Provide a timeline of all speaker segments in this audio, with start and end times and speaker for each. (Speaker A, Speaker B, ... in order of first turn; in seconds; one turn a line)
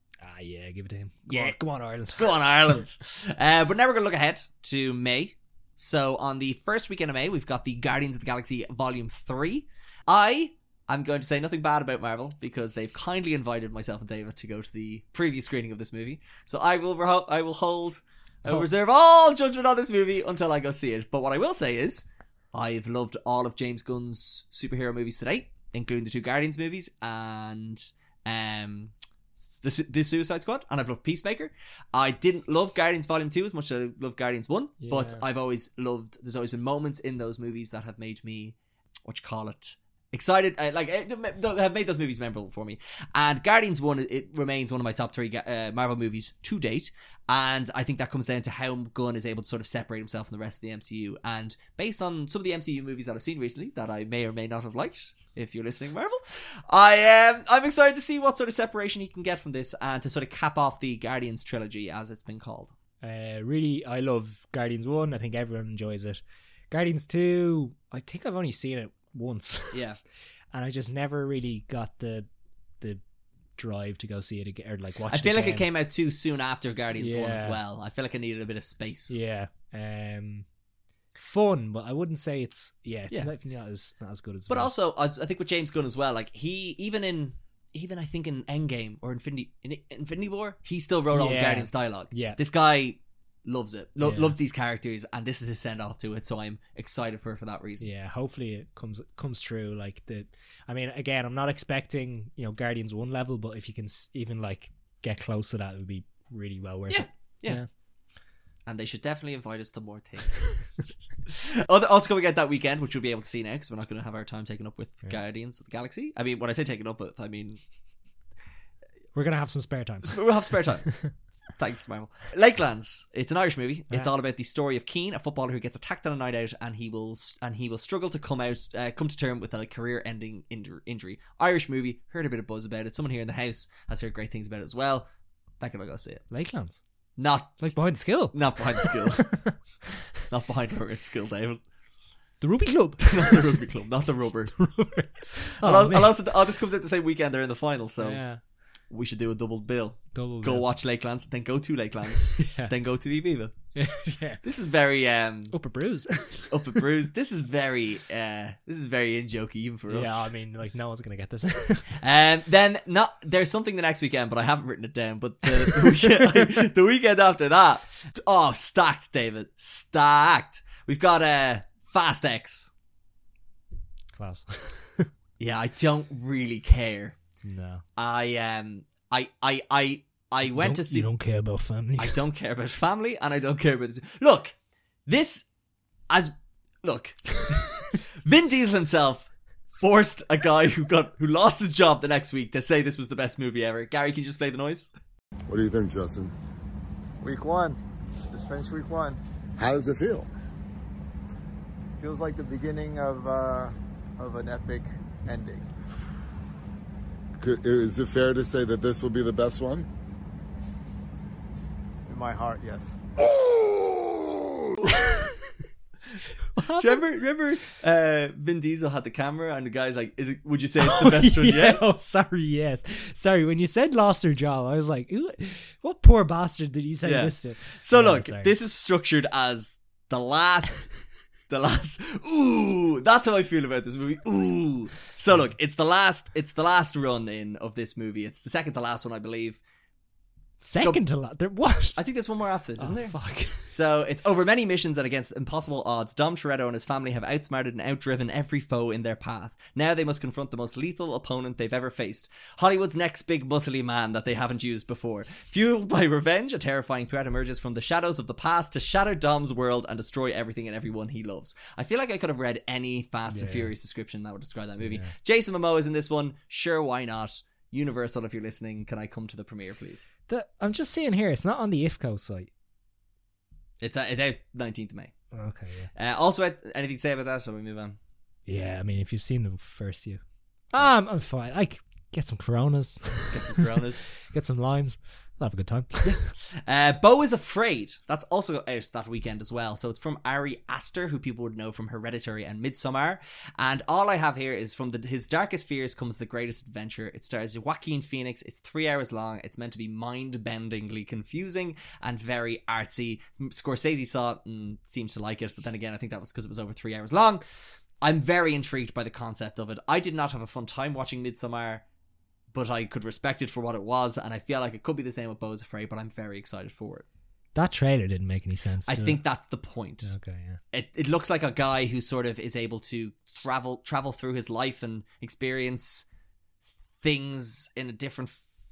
Speaker A: 0.2-2.3
Speaker B: 1.3-1.6
Speaker B: 2.2-62.7
Speaker A: 34.8-35.2
Speaker A: 63.0-69.8
Speaker B: 69.7-70.0
Speaker A: 70.5-72.3
Speaker A: 73.6-75.7
Speaker B: 75.1-79.2
Speaker A: 77.0-77.6
Speaker A: 79.1-80.5
Speaker A: 81.2-84.7
Speaker B: 84.5-97.9
Speaker A: 91.1-92.4
Speaker A: 94.0-94.3
Speaker A: 97.8-107.7
Speaker B: 106.9-107.6
Speaker B: 108.7-110.5
Speaker B: 111.3-117.6
Speaker A: 119.1-120.2
Speaker B: 120.0-121.0
Speaker A: 120.8-121.1
Speaker B: 121.6-135.1
Speaker B: 135.6-136.2
Speaker A: 136.3-136.8
Speaker B: 137.2-137.8
Speaker A: 137.6-139.6
Speaker B: 138.3-139.3
Speaker B: 140.3-141.6
Speaker A: 142.4-143.6
Speaker B: 143.0-144.6
Speaker A: 144.6-146.2
Speaker B: 145.3-148.2
Speaker A: 148.0-148.4
Speaker B: 148.9-153.5
Speaker A: 150.1-150.7
Speaker A: 152.4-152.7
Speaker A: 153.8-154.4
Speaker B: 154.4-155.6
Speaker A: 155.5-156.8
Speaker B: 156.5-160.3
Speaker A: 159.9-162.0
Speaker B: 162.0-172.7
Speaker A: 165.6-166.6
Speaker A: 174.2-175.1
Speaker B: 175.4-177.2
Speaker A: 177.4-177.8
Speaker B: 178.0-181.1
Speaker A: 180.4-182.2
Speaker B: 182.0-184.6
Speaker B: 185.1-185.5
Speaker B: 186.1-194.9
Speaker C: 195.5-196.3
Speaker D: 197.2-197.8
Speaker D: 198.3-199.2
Speaker C: 199.6-200.3
Speaker D: 202.0-205.7
Speaker C: 207.4-209.9
Speaker D: 212.1-212.9
Speaker C: 213.2-215.0
Speaker A: 216.6-217.1
Speaker B: 216.7-221.8
Speaker A: 220.8-228.5
Speaker B: 227.0-230.9
Speaker B: 231.5-239.6
Speaker A: 240.6-242.0
Speaker B: 242.0-270.1
Speaker A: 242.8-243.7
Speaker A: 263.3-263.7
Speaker A: 264.8-265.1
Speaker A: 270.3-272.5
Speaker B: 273.8-275.1
Speaker A: 275.3-275.9
Speaker B: 275.9-278.0
Speaker A: 278.5-286.3
Speaker B: 283.3-284.2
Speaker B: 286.0-307.4
Speaker B: 308.0-311.9
Speaker B: 312.5-317.1
Speaker A: 317.6-319.2
Speaker B: 318.9-320.1
Speaker A: 320.0-320.6
Speaker B: 320.7-326.1
Speaker B: 327.0-328.5